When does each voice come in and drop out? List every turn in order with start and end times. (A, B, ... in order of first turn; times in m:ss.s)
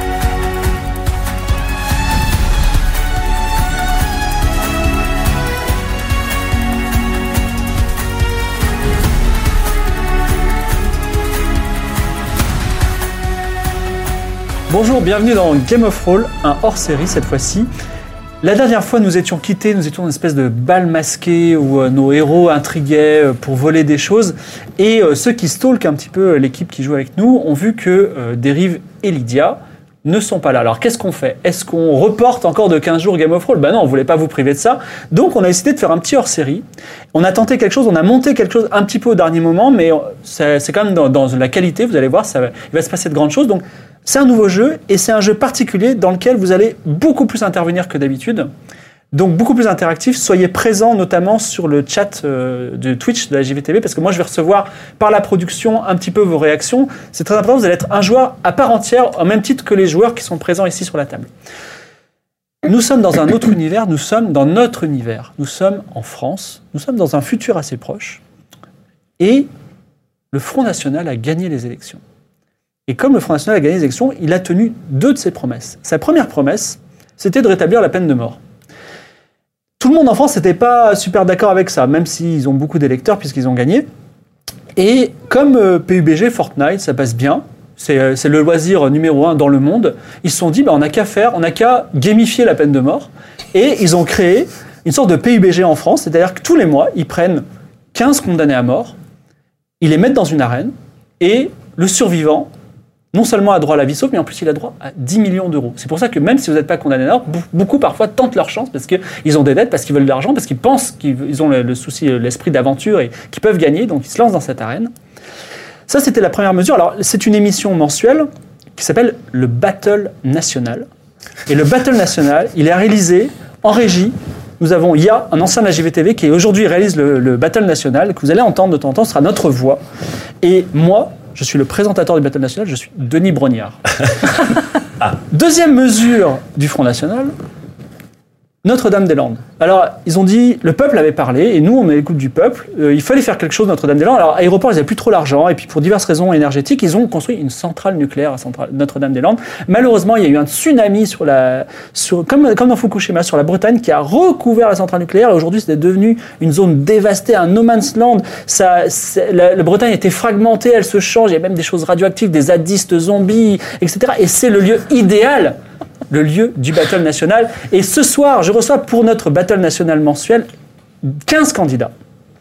0:14.7-0:17.7 A
0:18.4-0:48.5 A
0:49.1-1:01.3 A
1:02.6-1:08.2 A
1:09.2-1:09.5 A
1:10.3-1:12.0 A
1:12.9-1:18.4 A
1:19.8-1:23.8 A
1:24.7-1:38.9 A
1:39.8-1:42.5 A
1:43.1-1:54.9 A
1:55.9-2:00.9 A
2:01.5-2:09.8 A
2:10.4-2:13.8 A
2:15.3-2:17.3 A
2:18.6-2:45.6 A
2:46.1-2:50.5 A
2:51.0-2:51.9 A